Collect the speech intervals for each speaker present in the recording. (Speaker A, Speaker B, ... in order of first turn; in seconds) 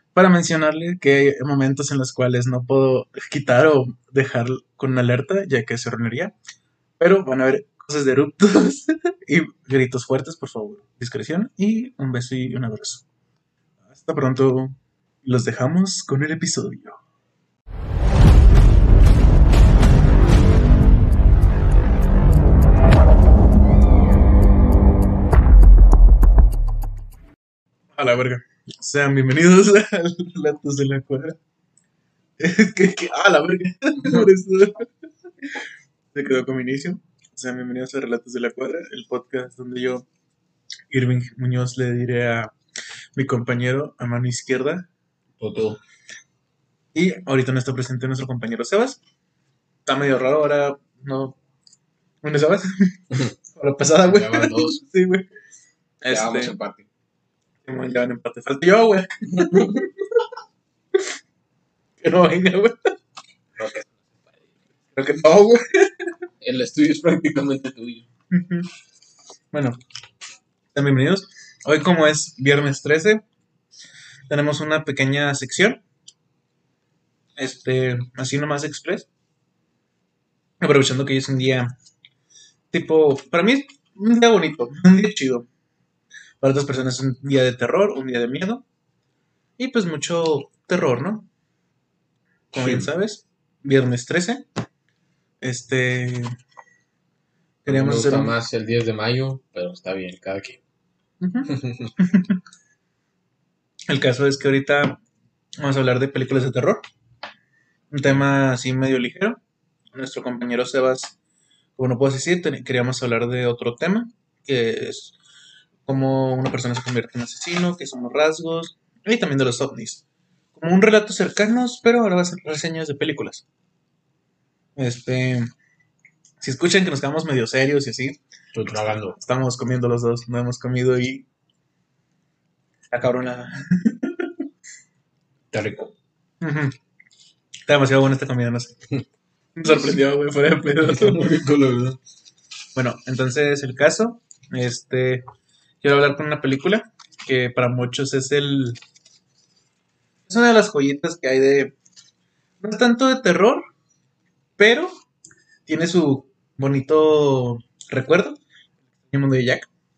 Speaker A: 0.1-6.3, 7.0-13.1, 13.9-17.0, 28.0-31.4, 32.4-34.9, 36.1-40.0, 40.9-42.5, 43.2-44.9, 46.9-49.0, 49.9-51.4, 52.2-53.0, 53.5-55.3, 56.0-56.5, 57.7-59.9, 62.0-62.8, 65.0-65.6, 68.3-68.7, 70.7-73.2, 74.3-75.8, 77.4-79.1, 80.6-81.7, 82.7-85.5, 86.4-88.6, 89.6-91.3, 92.5-94.4, 95.4-96.3, 97.7-98.4, 101.2-102.4, 103.9-105.0, 105.6-106.8, 107.9-109.4, 110.0-111.2, 111.8-115.1, 115.9-120.0, 120.5-123.4, 124.8-125.5, 126.4-128.2, 129.2-131.3, 132.9-134.3, 136.4-136.8, 137.7-138.8, 139.6-141.3, 142.8-145.2, 145.8-148.8, 150.3-151.7, 152.6-153.7, 154.6-154.9, 155.7-158.4, 159.1-159.7
Speaker B: 34.0-34.3, 45.4-45.8, 54.0-54.8, 56.1-56.9, 59.4-59.8, 63.6-64.5, 66.4-68.1, 92.5-92.9, 97.7-100.6, 101.5-101.9, 128.5-129.2, 135.5-135.9, 140.8-142.0